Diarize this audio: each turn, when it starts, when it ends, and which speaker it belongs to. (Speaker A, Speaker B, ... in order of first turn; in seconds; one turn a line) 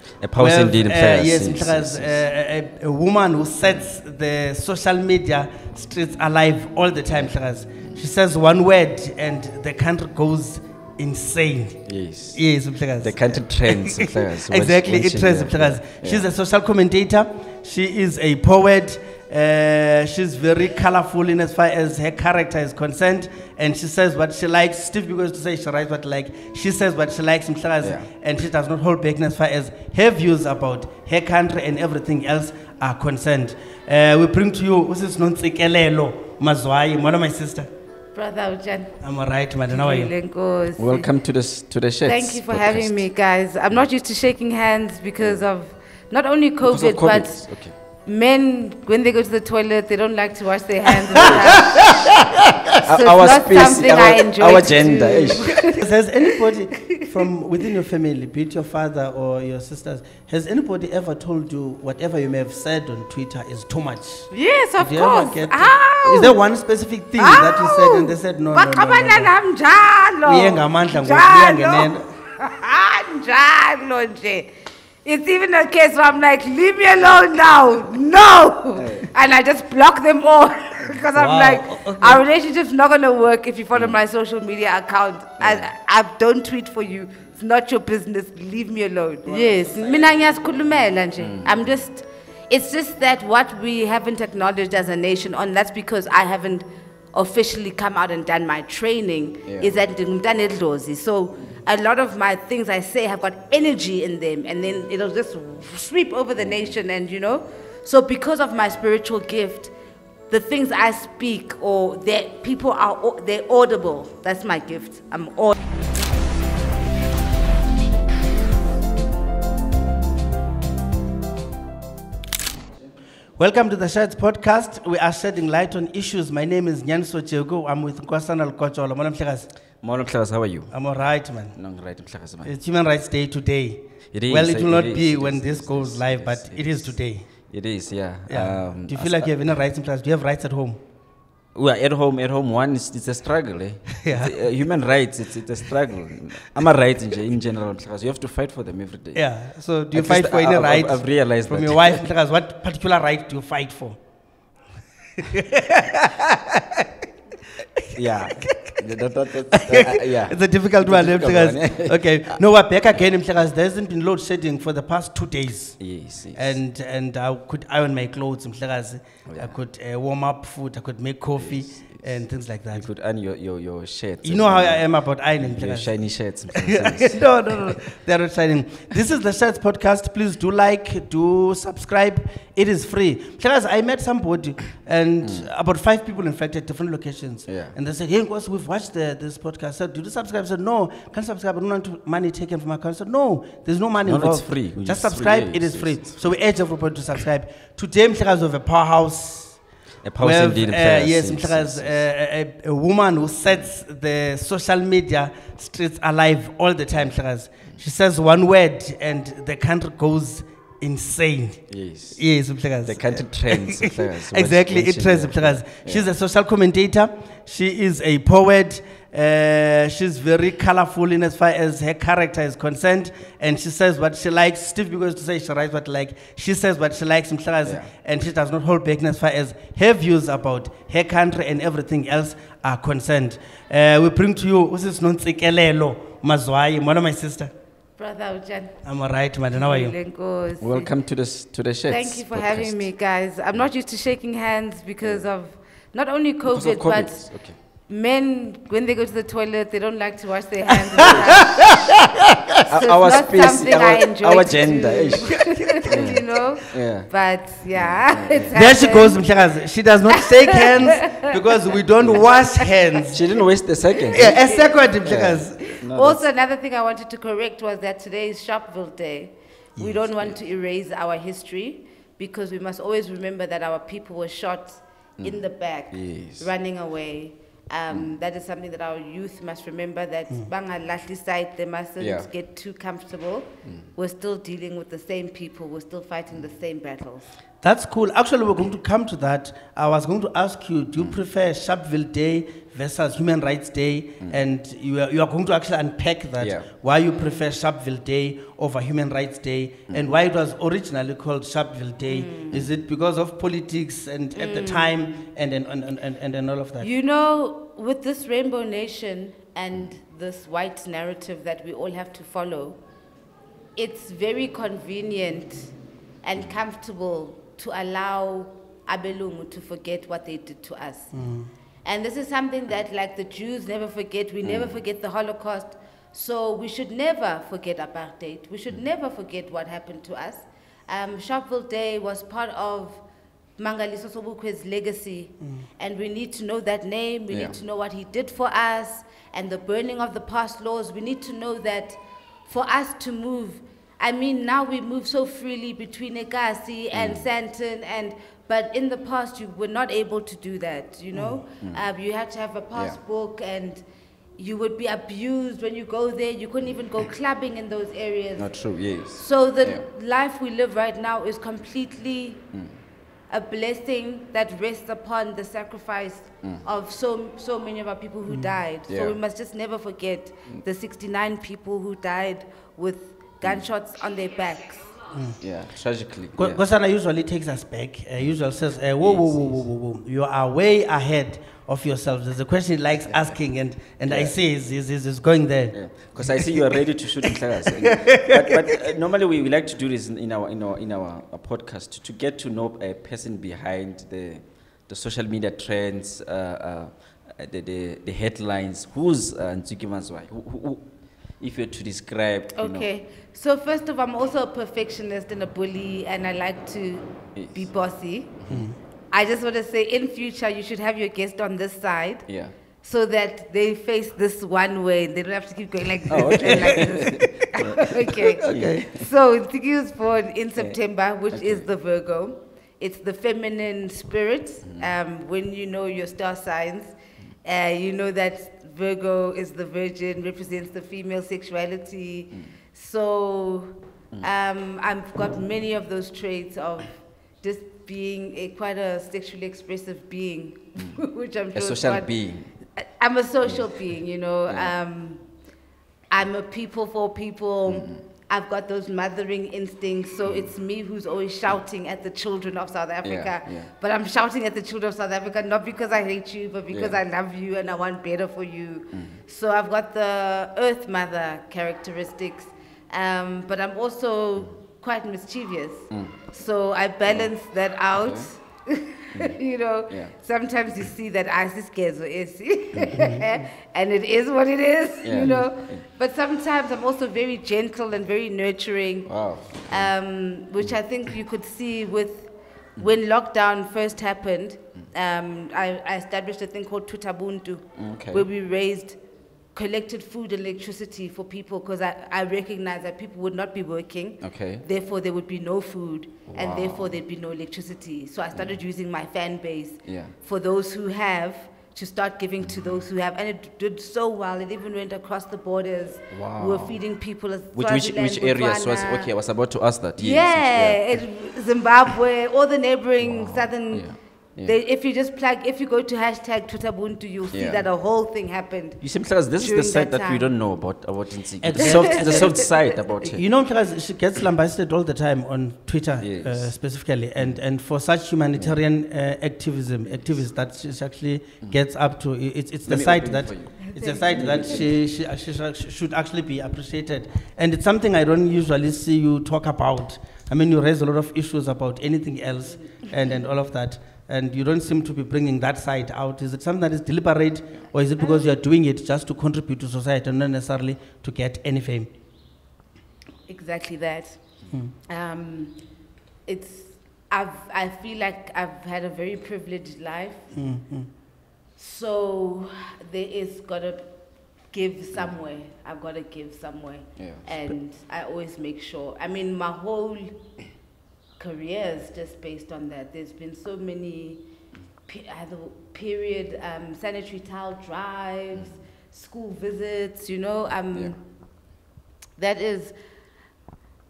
Speaker A: 0.2-2.2
Speaker B: 0.4-37.7
Speaker A: 11.9-12.4
Speaker A: 13.0-16.3
Speaker A: 27.8-28.1
Speaker C: 38.1-39.0
Speaker B: 39.0-40.1
Speaker C: 39.7-41.1
Speaker A: 40.8-43.1
Speaker C: 42.0-52.2
Speaker A: 46.6-47.8
Speaker A: 51.2-52.0
Speaker B: 51.2-52.8
Speaker A: 52.8-55.7
Speaker C: 52.8-55.9
Speaker B: 55.7-69.3
Speaker C: 56.8-57.1
Speaker C: 64.3-66.3
Speaker C: 67.2-74.5
Speaker B: 70.2-72.1
Speaker C: 75.0-109.7
Speaker A: 78.8-79.1
Speaker B: 81.2-82.2
Speaker A: 85.4-85.7
Speaker B: 89.3-90.1
Speaker A: 91.2-91.7
Speaker A: 99.5-99.7
Speaker C: 110.3-115.5
Speaker B: 123.4-129.5
Speaker A: 129.8-130.8
Speaker B: 130.7-131.6
Speaker A: 131.5-132.5
Speaker B: 132.4-137.3
Speaker A: 134.1-137.0
Speaker A: 137.5-139.3
Speaker B: 138.3-140.8
Speaker A: 141.6-149.2
Speaker B: 144.0-144.5
Speaker B: 149.2-154.0
Speaker A: 149.9-152.0
Speaker B: 155.2-157.1
Speaker B: 157.6-158.9
Speaker A: 157.9-162.4
Speaker B: 159.5-165.8
Speaker A: 165.8-166.6
Speaker B: 166.3-172.9
Speaker A: 169.3-169.5
Speaker A: 171.4-172.1
Speaker A: 172.7-174.9
Speaker B: 174.2-175.9
Speaker A: 175.4-177.8
Speaker B: 176.5-199.6
Speaker A: 185.2-185.5
Speaker A: 187.5-187.8
Speaker A: 194.0-196.1
Speaker A: 200.0-202.0
Speaker B: 200.2-237.5
Speaker A: 211.7-212.2
Speaker A: 212.8-216.1
Speaker A: 227.7-227.9
Speaker C: 238.0-238.8
Speaker B: 238.8-240.0
Speaker C: 239.6-240.9
Speaker A: 240.6-242.9
Speaker C: 241.9-251.9
Speaker A: 246.5-247.6
Speaker A: 251.1-251.7
Speaker B: 251.2-252.3
Speaker A: 252.6-258.6
Speaker C: 252.7-259.2
Speaker B: 255.9-256.1
Speaker B: 258.5-263.2
Speaker C: 260.2-261.4
Speaker A: 263.1-264.4
Speaker C: 264.0-264.7
Speaker B: 264.1-265.7
Speaker A: 265.0-266.2
Speaker C: 265.6-287.3
Speaker A: 275.2-276.5
Speaker A: 282.0-282.3
Speaker B: 287.6-306.9
Speaker A: 296.4-296.7
Speaker C: 302.1-302.6
Speaker C: 304.4-304.9
Speaker C: 306.8-312.8
Speaker C: 313.8-321.1
Speaker B: 321.1-321.5
Speaker C: 321.8-333.0
Speaker A: 324.4-324.8
Speaker C: 333.6-353.8
Speaker A: 337.3-337.6
Speaker A: 346.9-347.2
Speaker B: 351.1-351.4
Speaker C: 354.4-358.5
Speaker A: 358.4-359.9
Speaker C: 359.1-362.4
Speaker C: 363.3-375.1
Speaker B: 368.3-368.6
Speaker A: 368.9-369.2
Speaker B: 375.1-375.4
Speaker A: 375.4-376.6
Speaker B: 376.4-388.9
Speaker A: 379.0-379.6
Speaker A: 384.1-384.3
Speaker A: 385.7-400.9
Speaker A: 401.4-402.9
Speaker C: 402.6-408.4
Speaker A: 407.4-407.7
Speaker A: 408.4-408.7
Speaker B: 408.5-408.8
Speaker C: 409.1-412.3
Speaker A: 412.3-412.5
Speaker C: 412.8-442.1
Speaker A: 416.1-419.1
Speaker B: 418.4-418.9
Speaker A: 421.3-421.6
Speaker A: 441.6-442.5
Speaker C: 442.8-445.2
Speaker C: 446.1-479.1
Speaker A: 447.7-448.0
Speaker A: 453.0-453.7
Speaker A: 456.7-457.0
Speaker A: 458.9-459.2
Speaker A: 467.9-468.3
Speaker B: 472.9-473.3
Speaker A: 475.0-475.8
Speaker B: 475.2-475.4
Speaker A: 479.1-479.9
Speaker C: 479.7-489.0
Speaker A: 487.8-488.3
Speaker C: 489.6-509.1
Speaker A: 494.2-494.6
Speaker A: 496.3-497.0
Speaker A: 499.9-500.1
Speaker A: 506.1-506.8
Speaker A: 507.5-511.0
Speaker C: 510.0-513.9
Speaker A: 513.0-514.6
Speaker C: 514.4-518.8
Speaker A: 517.3-517.6
Speaker A: 518.8-523.2
Speaker C: 519.4-520.3
Speaker B: 521.4-551.9
Speaker C: 521.6-522.5
Speaker A: 526.0-526.5
Speaker A: 532.7-534.7
Speaker C: 533.6-534.1
Speaker C: 548.0-548.3
Speaker C: 553.3-554.2
Speaker C: 554.9-555.6
Speaker C: 556.3-560.3
Speaker B: 560.3-560.9
Speaker C: 561.6-563.9
Speaker C: 564.5-570.3
Speaker A: 567.0-567.3
Speaker C: 571.2-574.2
Speaker C: 574.9-581.0
Speaker C: 582.2-582.8